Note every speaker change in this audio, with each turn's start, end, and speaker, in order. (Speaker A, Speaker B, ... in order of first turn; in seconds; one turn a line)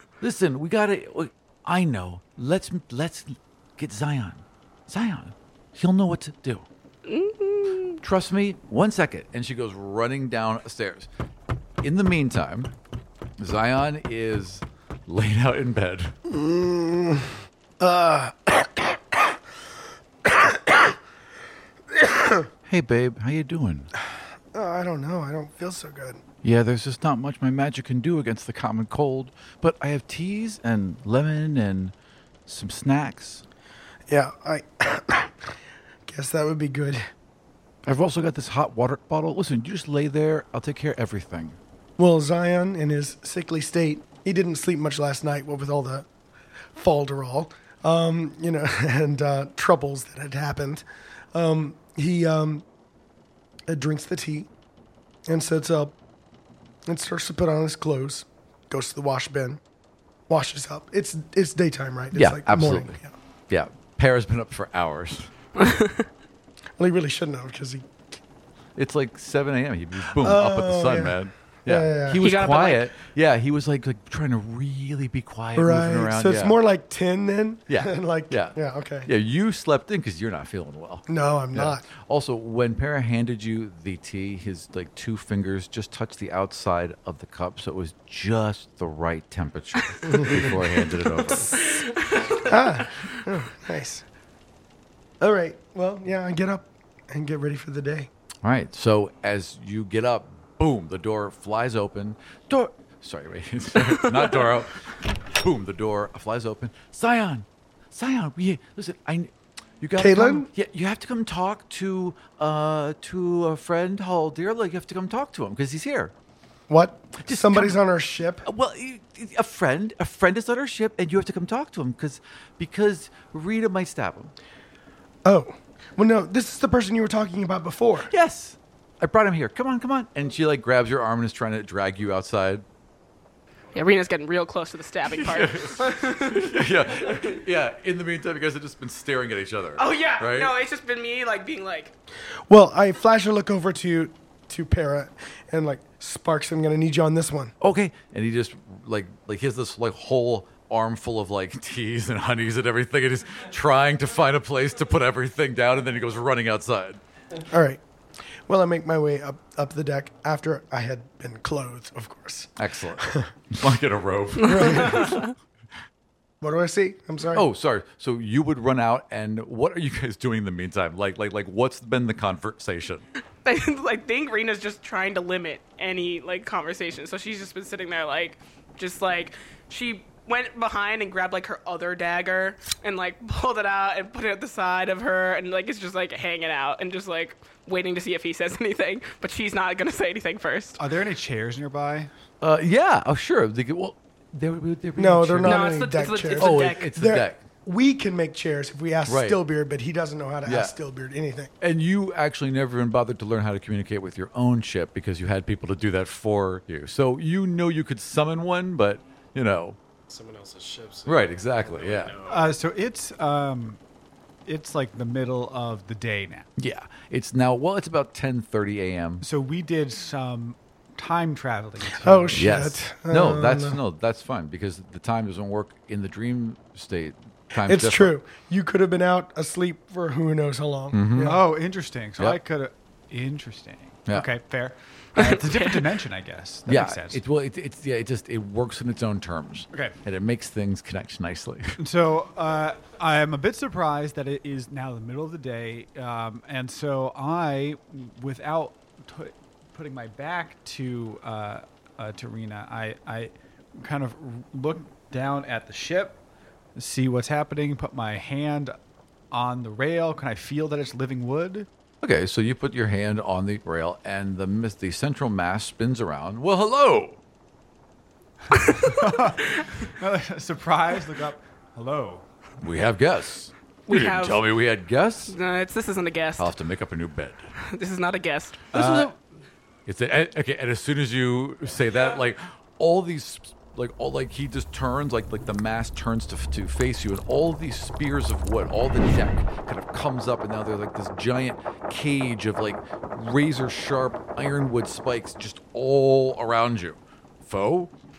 Speaker A: 0.2-6.7
Speaker B: 7.1-8.0
Speaker A: 8.0-11.1
Speaker A: 11.8-12.7
Speaker A: 13.4-16.1
Speaker C: 16.3-19.3
Speaker C: 20.2-20.9
Speaker C: 21.9-22.5
Speaker A: 22.7-23.9
Speaker C: 24.5-26.2
Speaker A: 26.4-31.9
Speaker A: 32.5-33.4
Speaker C: 34.1-35.5
Speaker C: 36.1-37.1
Speaker A: 37.9-41.6
Speaker C: 42.0-46.1
Speaker C: 46.8-52.6
Speaker C: 53.7-54.5
Speaker C: 55.3-55.9
Speaker C: 56.9-59.6
Speaker C: 60.3-63.1
Speaker A: 62.1-65.3
Speaker B: 65.6-66.1
Speaker C: 66.8-68.0
Speaker A: 68.8-76.6
Speaker C: 70.2-72.2
Speaker B: 72.2-72.9
Speaker C: 75.5-79.1
Speaker A: 77.7-91.6
Speaker C: 81.1-81.9
Speaker C: 90.1-90.5
Speaker B: 91.5-92.5
Speaker C: 92.3-94.0
Speaker C: 95.2-98.1
Speaker A: 98.4-116.1
Speaker B: 103.9-104.5
Speaker C: 110.0-110.5
Speaker C: 116.7-118.5
Speaker A: 117.2-117.8
Speaker A: 118.4-124.3
Speaker C: 125.2-128.1
Speaker A: 128.1-132.7
Speaker B: 133.7-137.3
Speaker A: 135.1-140.5
Speaker B: 139.8-141.9
Speaker C: 142.5-147.5
Speaker A: 147.6-157.0
Speaker C: 157.5-157.8
Speaker C: 158.5-163.3
Speaker A: 162.6-165.1
Speaker B: 164.4-165.3
Speaker C: 164.4-165.2
Speaker C: 166.4-167.4
Speaker A: 167.3-173.1
Speaker B: 173.4-190.8
Speaker D: 190.8-192.1
Speaker A: 192.4-195.8
Speaker C: 195.0-201.5
Speaker B: 195.4-196.9
Speaker A: 196.3-197.4
Speaker A: 199.1-199.4
Speaker A: 200.4-200.8
Speaker A: 201.6-209.8
Speaker E: 210.1-212.6
Speaker A: 211.1-212.2
Speaker D: 212.3-213.8
Speaker D: 214.5-216.5
Speaker A: 216.6-219.2
Speaker D: 219.2-222.5
Speaker C: 222.0-223.8
Speaker A: 222.3-228.2
Speaker C: 227.6-231.4
Speaker A: 230.9-231.4
Speaker D: 231.2-237.2
Speaker B: 235.2-235.9
Speaker A: 236.7-241.8
Speaker D: 241.8-256.2
Speaker D: 256.8-258.8
Speaker D: 259.3-261.7
Speaker A: 262.0-267.2
Speaker B: 268.5-269.7
Speaker D: 268.6-272.2
Speaker A: 272.6-275.4
Speaker B: 273.9-274.5
Speaker B: 275.3-276.5
Speaker A: 276.4-277.5
Speaker B: 277.6-278.7
Speaker A: 278.7-279.1
Speaker D: 278.7-279.1
Speaker A: 279.9-297.9